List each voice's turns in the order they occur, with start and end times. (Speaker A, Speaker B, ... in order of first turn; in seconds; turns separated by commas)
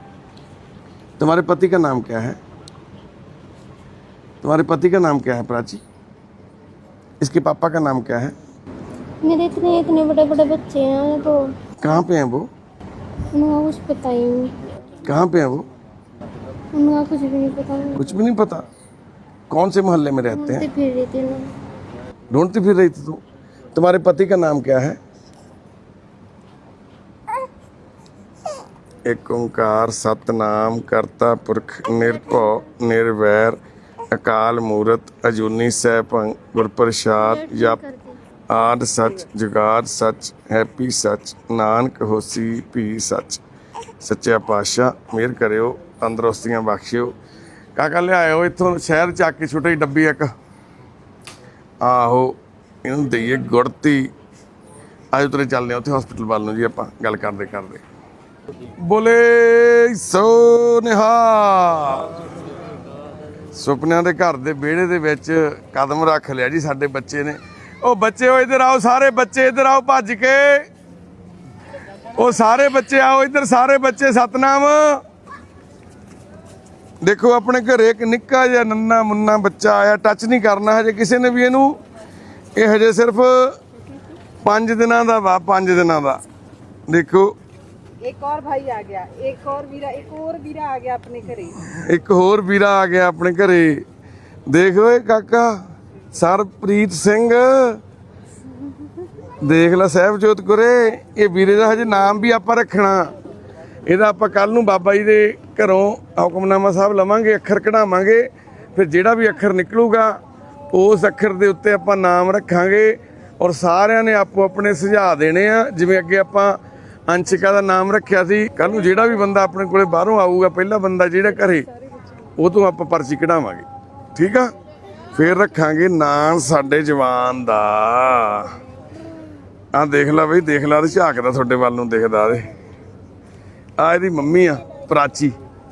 Speaker A: 1.2-2.4, Speaker A: 4.4-5.8, Speaker A: 7.2-8.3, Speaker B: 9.2-11.4, Speaker A: 11.8-12.5, Speaker B: 13.3-14.5, Speaker A: 15.1-15.7, Speaker B: 16.7-18.0, Speaker A: 18.0-18.6, Speaker A: 19.5-20.6, Speaker B: 20.3-21.5, Speaker A: 22.3-23.2, Speaker A: 23.7-25.0, Speaker A: 29.1-33.6, Speaker B: 32.0-32.5, Speaker A: 34.1-37.8, Speaker B: 37.2-38.2, Speaker A: 38.5-43.4, Speaker A: 44.0-47.1, Speaker A: 47.8-50.3, Speaker A: 51.8-54.1, Speaker A: 55.1-57.8, Speaker A: 58.8-62.1, Speaker A: 63.5-70.7, Speaker A: 72.1-75.0, Speaker A: 77.0-81.8, Speaker A: 82.5-83.6, Speaker A: 84.4-86.2, Speaker A: 86.9-87.3, Speaker C: 88.0-91.6, Speaker A: 91.6-93.8, Speaker A: 94.5-97.8, Speaker A: 99.4-103.1, Speaker A: 103.8-110.2, Speaker A: 110.7-121.7, Speaker A: 122.4-124.5, Speaker A: 125.1-128.6, Speaker A: 129.7-132.5, Speaker A: 133.8-135.3